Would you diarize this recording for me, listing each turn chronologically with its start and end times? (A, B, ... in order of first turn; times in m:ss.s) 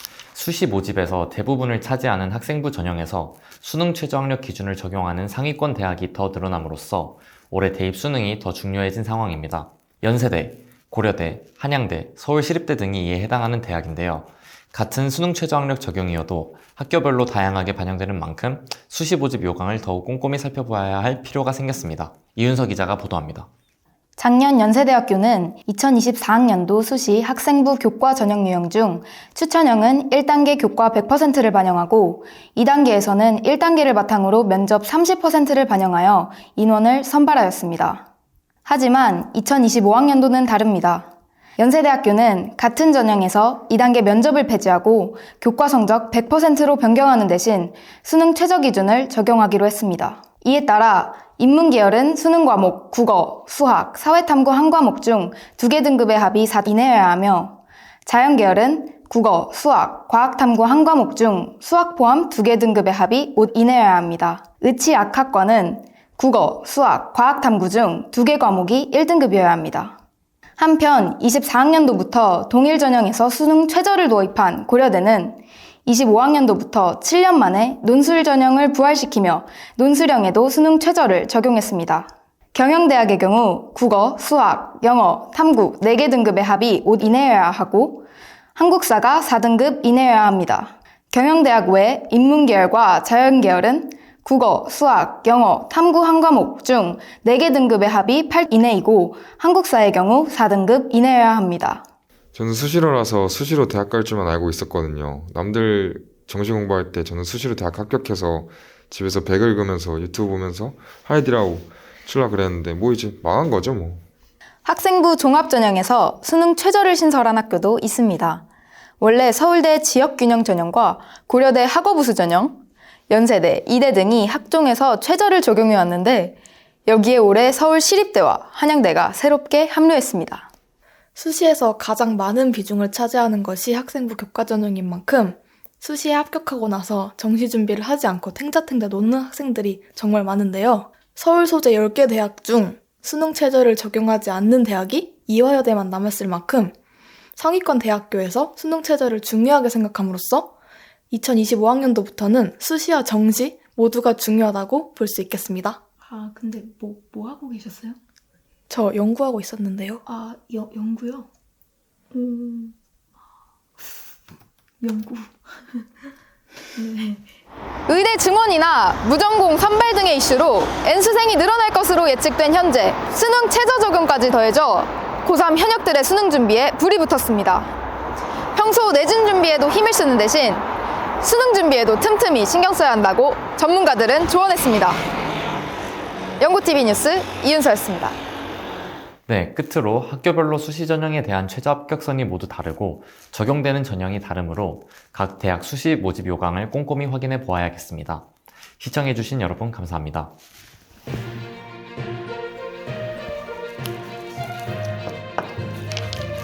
0:00.3-0:23.5 A
0:24.2-0:38.1 B
0:38.6-1:10.0 B
1:10.6-1:41.8 B
1:42.3-1:54.0 C
1:54.6-1:58.4 B
1:59.0-2:10.5 B
2:11.2-2:26.7 D
2:27.4-2:30.5 D
2:31.1-2:35.8 D
2:36.0-2:38.0 E
2:38.7-2:40.0 D
2:40.1-2:41.3 E
2:42.1-2:42.8 E
2:44.8-2:45.8 E
2:46.8-2:47.2 E
2:47.9-2:57.7 B
2:58.5-3:00.7 B
3:01.2-3:05.0 B
3:06.4-3:08.2 B
3:09.3-3:18.3 A
3:18.8-3:20.3 A